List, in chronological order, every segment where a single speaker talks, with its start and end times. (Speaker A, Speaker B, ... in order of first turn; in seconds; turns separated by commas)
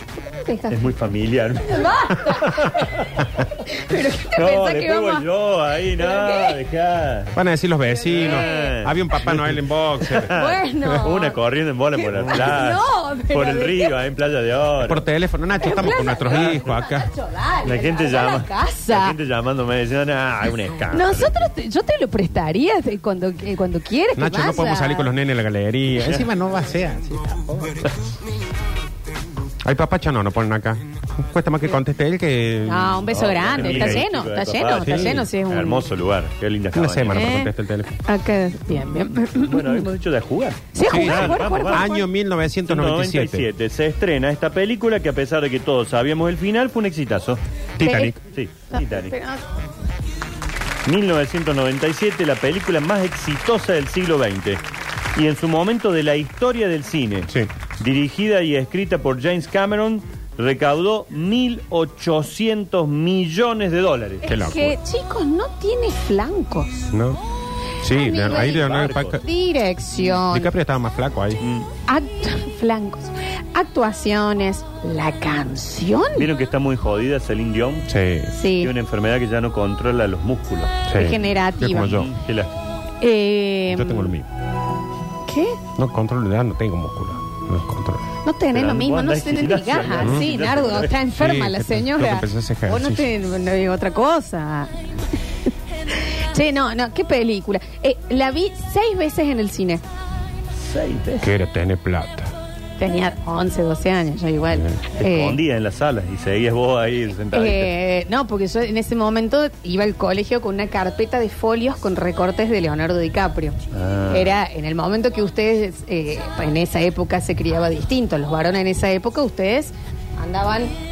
Speaker A: 0.3-0.8, Speaker B: 0.7-3.2, Speaker A: 1.6-3.0, Speaker A: 3.6-5.3, Speaker B: 4.2-7.3, Speaker A: 5.9-6.6, Speaker C: 7.3-10.3, Speaker A: 7.9-8.8, Speaker B: 8.1-15.0, Speaker A: 10.2-11.4, Speaker A: 12.0-13.9, Speaker C: 14.8-17.1, Speaker A: 15.6-19.2, Speaker B: 16.3-16.6, Speaker B: 17.6-21.4, Speaker A: 20.9-25.1, Speaker C: 24.1-27.9, Speaker C: 29.6-34.0, Speaker A: 32.6-35.9, Speaker B: 33.1-37.3, Speaker C: 34.8-35.3, Speaker C: 36.7-37.9, Speaker A: 37.1-39.9, Speaker B: 39.4-41.9, Speaker A: 40.7-42.0, Speaker C: 40.8-43.5, Speaker B: 42.7-47.4, Speaker C: 47.8-48.2, Speaker A: 47.8-48.1, Speaker B: 48.2-49.1, Speaker A: 48.7-49.4, Speaker B: 50.8-54.6, Speaker B: 55.1-64.2, Speaker A: 64.2-66.8, Speaker C: 64.2-64.8, Speaker C: 66.9-67.2, Speaker C: 67.8-69.2, Speaker A: 67.8-70.5, Speaker B: 68.3-69.2, Speaker C: 70.2-71.4, Speaker B: 71.4-71.7, Speaker A: 71.9-76.3, Speaker B: 76.2-77.9, Speaker C: 77.9-78.3, Speaker A: 78.3-78.7, Speaker B: 78.6-80.8, Speaker C: 80.8-82.1, Speaker A: 80.9-82.0, Speaker B: 81.8-82.5, Speaker A: 83.0-84.1, Speaker C: 83.7-84.3, Speaker A: 85.2-85.6, Speaker C: 85.8-88.0, Speaker A: 88.2-94.8, Speaker B: 88.5-90.9, Speaker C: 91.1-93.0, Speaker A: 95.9-99.8, Speaker B: 100.6-101.3, Speaker C: 101.2-102.3, Speaker A: 102.8-105.4, Speaker B: 105.0-107.7, Speaker A: 107.3-113.5, Speaker B: 113.7-114.3, Speaker A: 114.1-120.7